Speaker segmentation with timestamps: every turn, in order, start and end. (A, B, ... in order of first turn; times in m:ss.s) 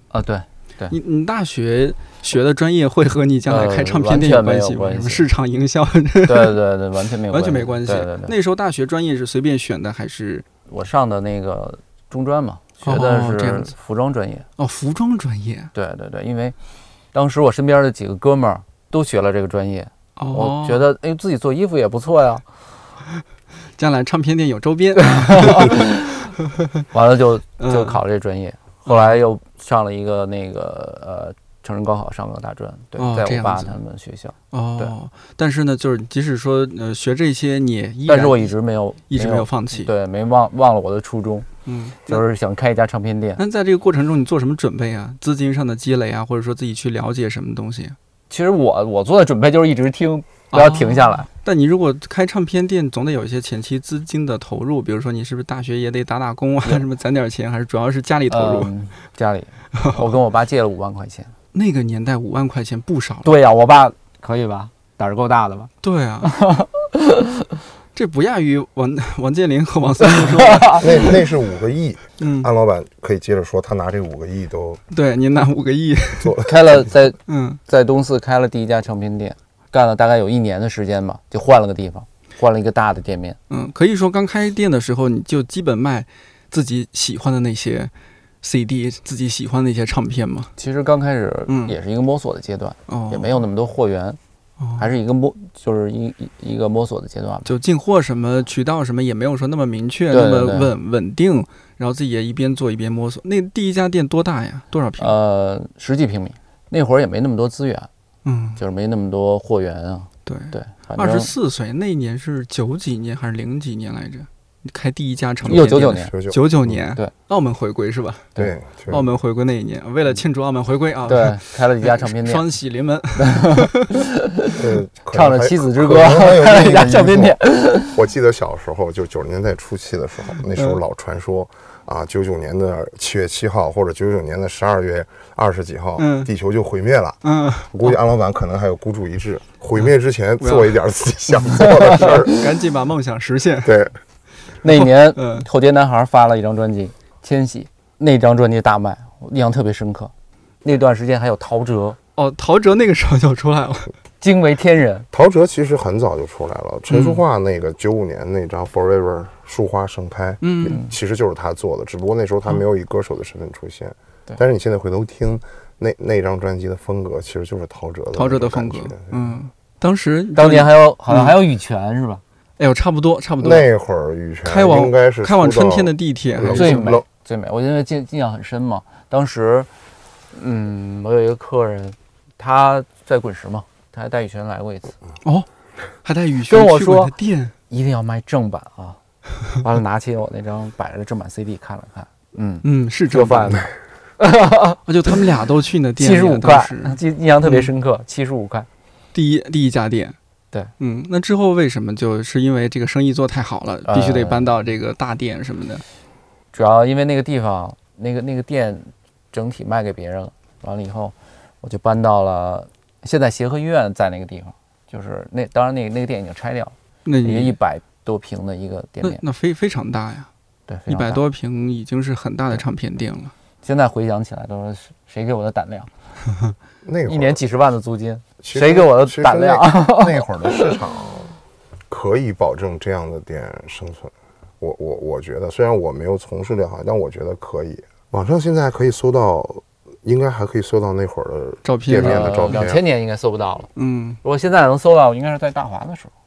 0:00.1-0:00.9 A
0:00.9-0:06.6 B
0:03.5-0:05.2 A
0:06.2-0:08.3 A
0:07.3-0:10.4 B
0:10.7-0:14.4 A
0:12.8-0:13.7 B
0:14.6-0:15.7 B
0:15.7-0:16.6 A
0:17.1-0:22.4 A
0:20.2-0:20.8 B
0:23.8-0:26.3 B
0:25.0-0:26.2 A
0:26.9-0:34.9 A
0:27.6-0:28.0 B
0:28.9-0:29.1 B
0:33.0-0:33.8 B
0:34.5-0:38.5 B
0:38.1-0:41.5 A
0:39.1-0:39.9 B
0:41.6-0:42.2 B
0:42.0-0:43.4 A
0:43.4-0:48.0 B
0:48.3-0:51.3 A
0:50.5-0:58.7 B
0:58.3-1:01.3 A
0:59.7-1:00.0 B
1:01.5-1:03.4 B
1:03.2-1:05.7 A
1:05.8-1:06.4 B
1:06.2-1:07.5 A
1:07.9-1:11.2 B
1:10.0-1:11.2 A
1:10.7-1:14.8 C
1:12.2-1:12.5 B
1:14.9-1:16.4 B
1:16.2-1:16.7 C
1:16.4-1:23.4 A
1:17.2-1:17.6 B
1:23.5-1:30.5 B
1:30.6-1:34.2 A
1:31.5-1:31.7 B
1:32.9-1:33.4 B
1:34.6-1:34.9 B
1:34.8-1:37.5 A
1:37.4-1:45.2 B
1:40.1-1:40.7 A
1:45.0-1:47.9 A
1:48.2-1:48.6 B
1:48.6-1:51.3 A
1:50.2-1:58.3 B
1:55.4-1:56.7 C
1:55.4-1:56.1 A
1:58.4-1:59.0 C
1:58.9-2:04.0 B
2:01.1-2:02.4 A
2:03.2-2:08.0 A
2:04.5-2:22.4 C
2:16.0-2:16.3 B
2:17.2-2:18.0 B
2:20.4-2:20.8 B
2:21.4-2:23.8 B
2:21.5-2:22.3 A
2:23.6-2:23.9 C
2:24.6-2:30.1 A
2:24.6-2:25.4 B
2:30.6-2:32.0 A
2:32.2-2:33.9 B
2:34.2-2:35.1 A
2:35.1-2:49.4 C
2:36.9-2:37.2 B
2:40.4-2:40.8 B
2:48.1-2:51.4 B
2:50.4-2:52.2 A
2:52.6-2:53.7 B
2:53.4-2:57.0 C
2:54.4-2:56.9 B
2:56.5-2:59.7 A
3:00.3-3:05.0 A
3:06.0-3:07.5 B
3:06.5-3:07.1 A
3:07.7-3:09.0 A
3:09.6-3:15.2 A
3:12.6-3:13.7 B
3:14.8-3:17.7 B
3:16.0-3:18.7 A
3:19.1-3:20.2 B
3:20.8-3:25.8 B
3:23.8-3:24.5 A
3:26.5-3:39.2 A
3:37.0-3:37.6 B
3:39.0-3:40.3 B
3:40.7-3:41.2 A
3:40.9-3:43.3 B
3:43.6-3:45.9 A
3:46.8-3:47.4 C
3:47.0-3:50.8 A
3:48.4-3:51.4 C
3:51.9-4:02.8 C
4:01.6-4:02.6 B
4:01.9-4:03.7 A
4:03.8-4:04.2 B
4:04.2-4:06.1 A